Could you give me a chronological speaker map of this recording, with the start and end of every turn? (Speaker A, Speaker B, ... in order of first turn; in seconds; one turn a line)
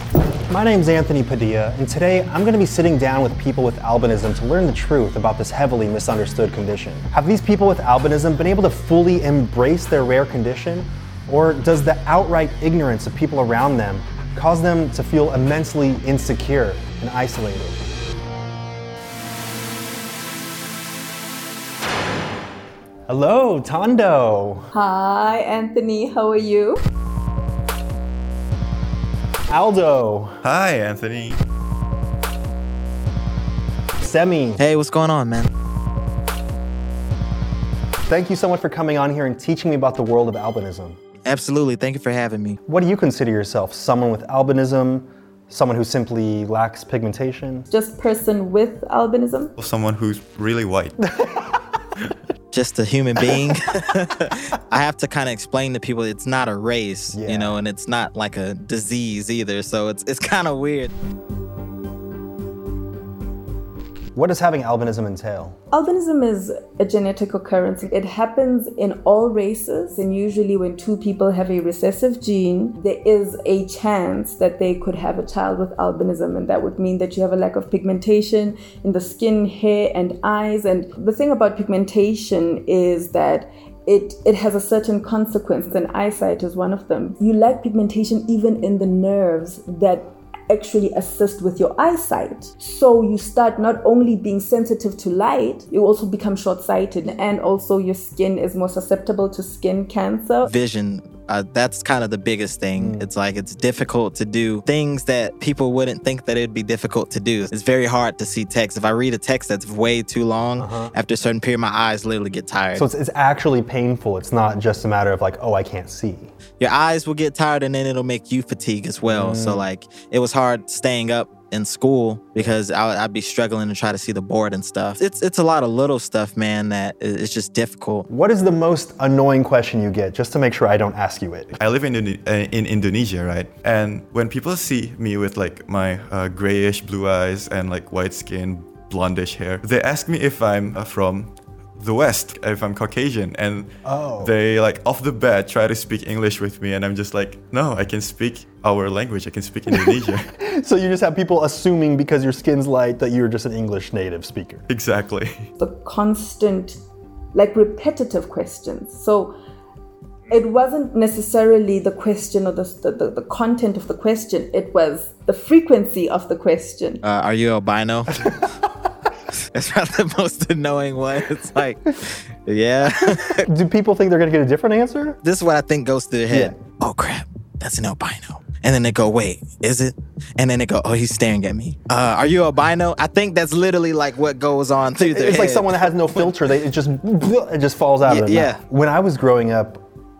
Speaker A: 0.5-17.8
Speaker A: 23.1-24.7
Speaker B: 24.7-26.8
Speaker A: 29.5-30.4
Speaker C: 30.4-31.4
Speaker A: 34.0-34.6
Speaker D: 34.6-35.5
Speaker A: 38.1-41.0
Speaker D: 41.3-42.6
Speaker A: 42.7-47.7
Speaker B: 47.7-49.5
Speaker C: 49.6-51.0
Speaker A: 51.2-51.6
Speaker D: 52.5-60.9
Speaker A: 57.1-57.6
Speaker A: 64.2-65.6
Speaker B: 65.7-100.5
Speaker D: 100.4-112.9
Speaker A: 102.8-103.1
Speaker A: 110.6-110.9
Speaker A: 112.8-116.3
Speaker D: 116.6-128.1
Speaker A: 119.0-119.7
Speaker A: 128.1-131.5
Speaker C: 131.6-150.3
Speaker A: 143.8-144.4
Speaker A: 149.7-154.7
Speaker C: 154.7-155.5
Speaker B: 155.6-156.8
Speaker B: 157.3-159.3
Speaker B: 160.3-167.0
Speaker D: 167.0-168.2
Speaker D: 169.5-173.4
Speaker A: 173.4-175.2
Speaker D: 175.2-186.3
Speaker A: 176.3-176.6
Speaker A: 185.0-189.8
Speaker D: 188.1-188.6